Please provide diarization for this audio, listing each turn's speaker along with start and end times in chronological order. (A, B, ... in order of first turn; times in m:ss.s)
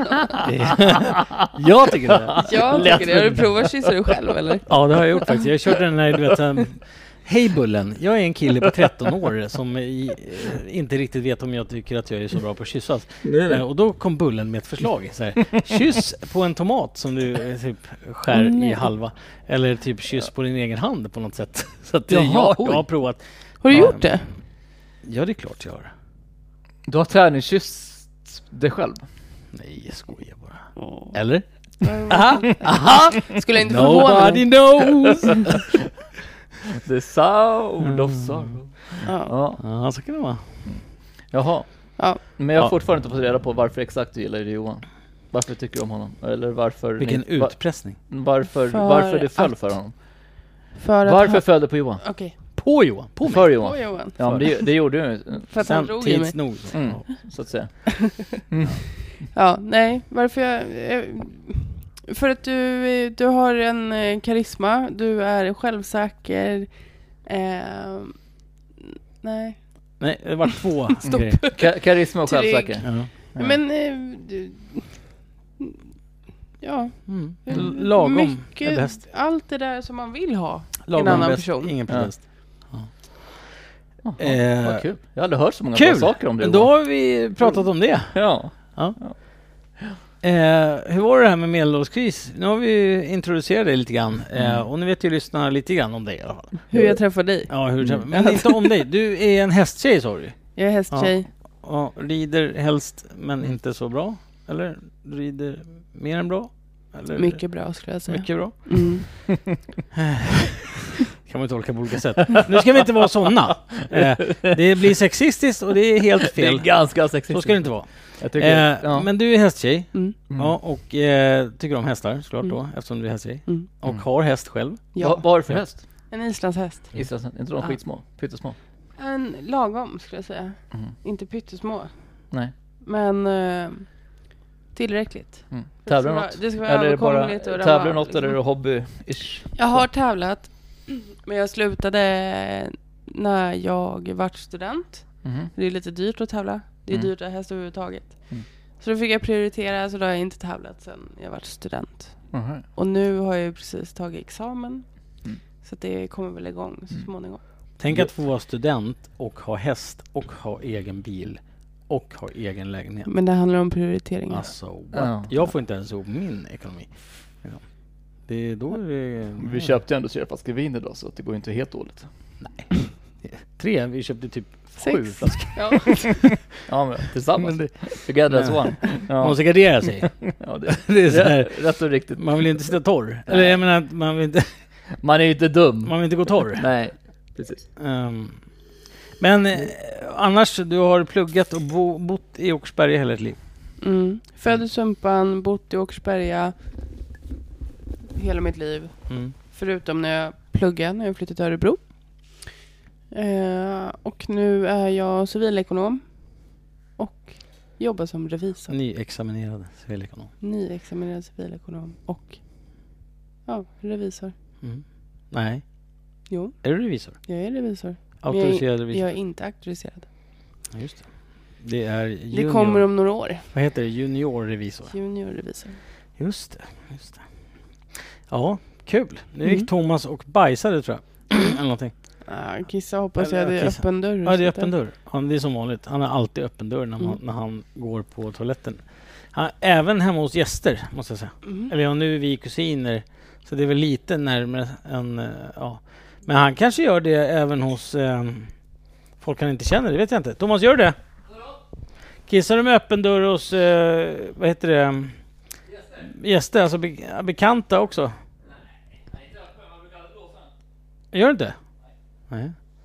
0:00.2-0:01.5 A
0:00.4-0:03.5 B
0:02.1-0:03.2 A
0:02.4-0:04.7 C
0:04.7-0:24.2 B
0:18.3-0:18.9 C
0:22.1-0:22.8 A
0:23.6-0:24.3 C
0:25.0-0:25.9 B
0:26.9-0:29.1 A
0:29.5-0:35.7 B
0:30.8-0:31.1 C
0:31.8-0:34.8 C
0:36.8-0:39.6 A
0:37.8-0:38.5 B
0:39.0-0:39.3 C
0:39.6-0:40.4 B
0:40.6-0:50.0 A
0:47.0-0:48.0 B
0:48.7-0:49.7 C
0:50.8-0:52.4 C
0:51.0-0:52.0 A
0:52.6-0:54.7 B
0:53.2-0:55.5 A
0:53.6-0:54.7 C
0:55.5-0:56.7 C
0:55.6-0:57.1 B
0:56.7-0:58.8 A
0:59.3-1:08.2 C
1:08.9-1:09.6 C
1:10.0-1:11.4 B
1:11.0-1:15.8 C
1:11.5-1:13.6 A
1:12.8-1:13.1 B
1:16.6-1:21.8 C
1:17.1-1:19.0 B
1:20.8-1:23.6 B
1:21.9-1:22.1 A
1:24.0-1:26.7 A
1:24.2-1:24.9 B
1:25.7-1:29.0 B
1:28.1-1:29.2 A
1:30.2-1:36.7 B
1:34.4-1:34.6 A
1:36.7-1:38.8 C
1:37.5-1:49.2 B
1:37.8-1:38.0 A
1:40.5-1:41.3 C
1:47.2-1:49.0 C
1:49.9-2:04.8 B
1:53.8-1:54.5 A
1:56.2-1:59.1 A
2:00.3-2:00.6 A
2:05.0-2:05.2 C
2:05.0-2:05.8 A
2:05.8-2:07.0 C
2:06.9-2:08.6 A
2:09.0-2:12.3 C
2:12.8-2:18.4 C
2:15.5-2:19.9 A
2:19.6-2:37.4 C
2:25.2-2:25.5 A
2:32.3-2:32.6 A
2:37.8-2:43.1 B
2:43.0-2:44.5 C
2:44.3-2:47.6 B
2:44.9-2:45.3 A
2:48.2-2:49.7 B
2:49.4-2:52.1 A
2:52.4-2:56.2 B
2:54.8-2:56.2 C
2:55.6-3:03.6 A
2:57.4-3:04.5 B
3:05.0-3:07.6 A
3:05.9-3:06.7 B
3:07.8-3:08.4 B
3:09.2-3:13.4 B
3:13.8-3:16.5 C
3:18.1-3:22.5 C
3:19.1-3:19.3 B
3:23.1-3:28.8 C
3:28.7-3:30.3 B
3:30.4-3:32.4 C
3:33.5-3:34.3 C
3:34.6-3:35.6 B
3:36.3-3:40.1 C
3:36.6-3:37.2 B
3:38.2-3:39.0 B
3:40.7-3:44.9 B
3:42.3-3:43.5 C
3:44.9-3:45.8 C
3:46.2-3:47.2 B
3:48.0-3:51.9 B
3:49.4-3:49.7 C
3:52.2-3:54.7 C
3:53.2-4:08.5 B
4:09.2-4:11.0 B
4:12.3-4:15.2 B
4:15.9-4:18.2 B
4:21.1-4:21.6 B
4:22.3-4:22.5 B